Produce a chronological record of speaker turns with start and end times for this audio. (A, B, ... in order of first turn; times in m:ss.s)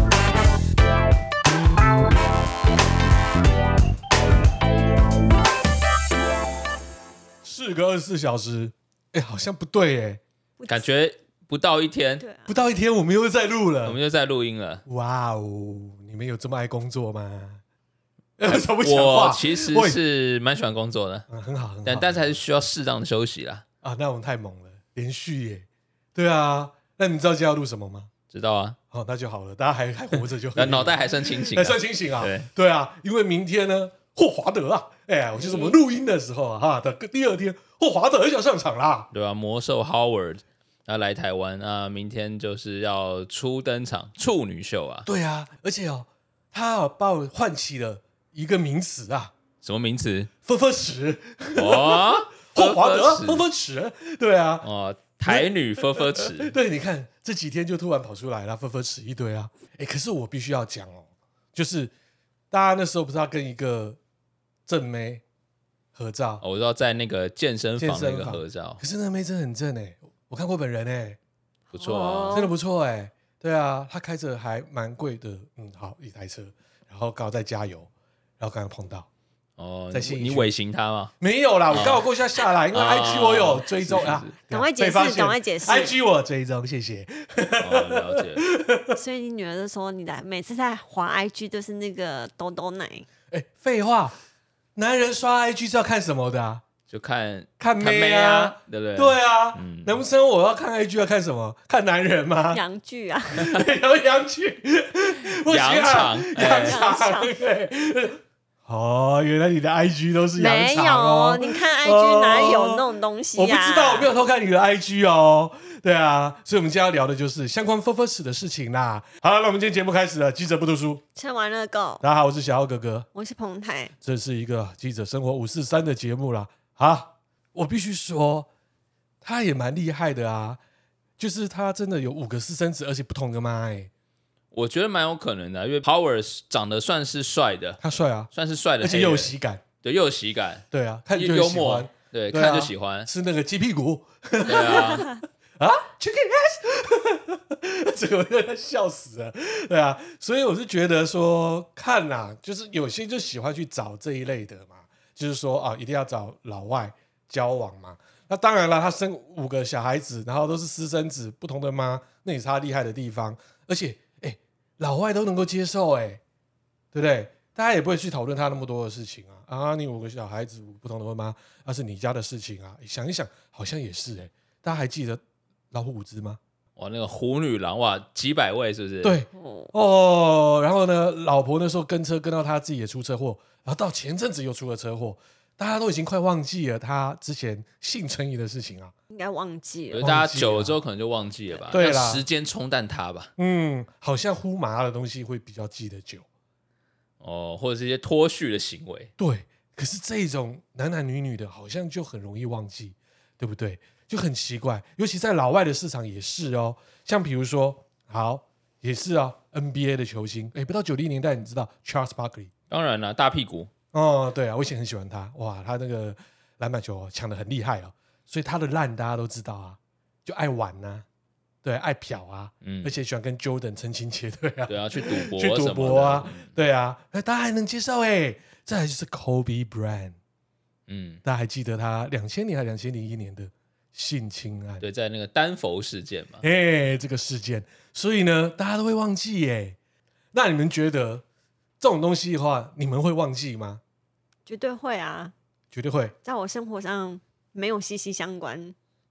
0:07.4-0:10.2 A
0:10.6-0:10.9 B
0:10.7-0:12.2 C
0:12.2-0:12.5 B
0:12.4-0:14.0 A
0:13.8-0:14.8 C
0:14.8-0:17.6 A
0:18.4-0:20.0 A
0:18.7-0:21.2 C
0:21.3-0:22.3 A
0:21.8-0:23.6 C
0:23.8-0:28.1 A
0:28.3-0:28.8 C
0:28.9-0:39.1 A
0:30.5-0:32.5 C
0:35.4-0:35.8 B
0:39.1-0:45.1 C
0:45.0-0:49.3 A
0:49.6-0:50.3 C
0:50.4-0:54.7 A
0:51.6-0:53.4 C
0:54.6-0:56.5 C
0:55.2-1:01.9 A
1:02.5-1:04.0 A
1:04.6-1:05.2 A
1:05.9-1:06.4 A
1:06.4-1:08.8 C
1:07.8-1:11.2 A
1:11.7-1:12.5 C
1:11.8-1:12.5 B
1:12.3-1:19.1 A
1:19.6-1:21.1 C
1:19.9-1:20.5 A
1:21.2-1:29.0 A
1:21.7-1:22.0 C
1:22.7-1:24.3 C
1:24.5-1:25.9 B
1:27.6-1:28.4 C
1:28.9-1:33.1 B
1:33.3-1:34.2 A
1:34.8-1:36.6 A
1:36.9-1:40.0 C
1:37.6-1:42.6 A
1:42.5-1:43.5 B
1:43.3-2:01.0 A
1:45.5-1:46.8 C
1:46.4-1:47.4 B
1:50.4-1:54.1 B
2:01.2-2:02.0 B
2:02.0-2:03.1 A
2:03.1-2:03.9 B
2:04.0-2:08.5 A
2:09.2-2:10.6 A
2:11.2-2:13.9 A
2:14.5-2:17.8 C
2:17.8-2:19.6 A
2:18.3-2:23.1 C
2:20.7-2:46.2 A
2:24.5-2:25.1 C
2:46.9-2:56.4 A
2:56.8-2:59.2 C
2:59.0-3:08.9 A
2:59.3-2:59.7 B
3:09.1-3:10.1 B
3:09.9-3:13.3 C
3:10.0-3:10.8 A
3:11.5-3:11.7 B
3:11.7-3:12.2 A
3:13.4-3:16.2 A
3:17.2-3:19.1 C
3:19.2-3:32.5 A
3:32.7-3:33.7 C
3:33.9-3:41.0 A
3:41.6-3:50.2 A
3:42.6-3:42.9 C
3:44.7-3:46.5 C
3:50.9-3:51.2 C
3:51.2-3:54.8 A
3:54.8-3:56.4 C
3:56.4-3:59.8 A
4:00.3-4:01.2 A
4:01.8-4:03.8 A
4:04.5-4:05.3 B
4:05.7-4:06.1 A
4:06.2-4:08.7 B